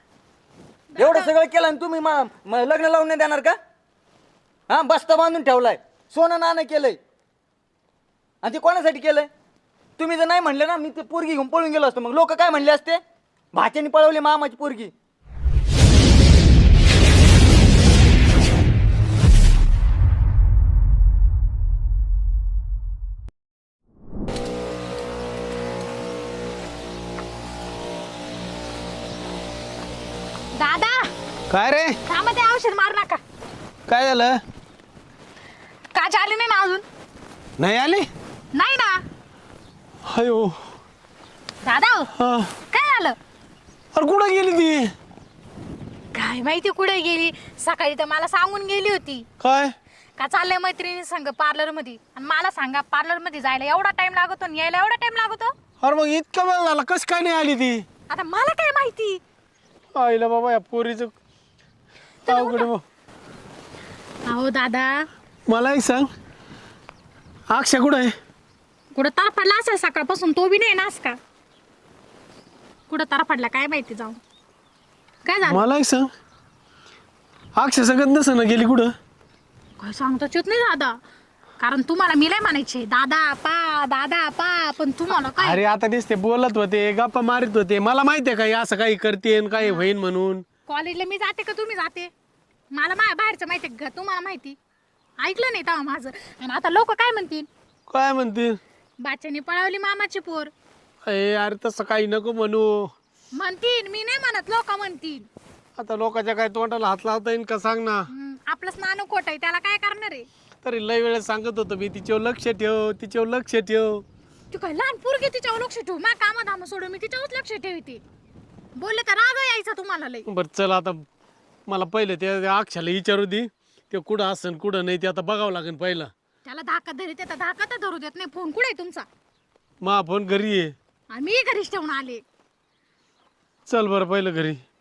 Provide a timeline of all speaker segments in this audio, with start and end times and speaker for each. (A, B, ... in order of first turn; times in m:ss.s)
0:00.9-0:01.3 A
0:01.0-0:03.6 B
0:04.7-0:07.0 B
0:08.4-0:09.3 B
0:10.0-0:13.0 B
0:13.5-0:14.9 B
0:30.6-0:31.1 A
0:31.5-0:32.0 C
0:32.0-0:33.2 A
0:33.9-0:34.4 C
0:35.9-0:36.8 A
0:37.6-0:38.1 C
0:38.5-0:39.0 A
0:40.0-0:40.6 C
0:41.6-0:42.1 A
0:42.1-0:42.5 C
0:42.7-0:43.2 A
0:43.9-0:44.9 C
0:46.1-0:49.3 A
0:49.4-0:49.7 C
0:50.2-0:55.5 A
0:55.8-0:57.8 C
0:58.1-0:59.2 A
0:59.9-1:01.1 C
1:02.2-1:02.7 A
1:02.3-1:02.8 C
1:04.2-1:05.0 A
1:05.5-1:06.1 C
1:07.5-1:08.1 C
1:08.9-1:11.2 A
1:12.9-1:14.2 A
1:15.2-1:15.6 A
1:15.4-1:16.1 C
1:17.6-1:18.9 C
1:19.8-1:21.0 A
1:21.6-1:25.6 A
1:25.3-1:30.4 C
1:29.6-1:29.9 A
1:30.7-1:32.1 A
1:32.7-1:34.6 A
1:35.2-1:37.5 A
1:37.9-1:38.6 C
1:39.0-1:40.5 A
1:41.0-1:42.9 C
1:43.4-1:45.3 A
1:45.8-1:48.1 C
1:48.1-1:50.3 A
1:50.6-1:54.0 C
1:54.5-1:58.0 A
1:58.8-2:00.3 A
2:00.3-2:01.0 C
2:01.7-2:06.1 C
2:06.4-2:09.1 A
2:09.8-2:10.7 C
2:11.1-2:12.2 A
2:13.7-2:14.6 C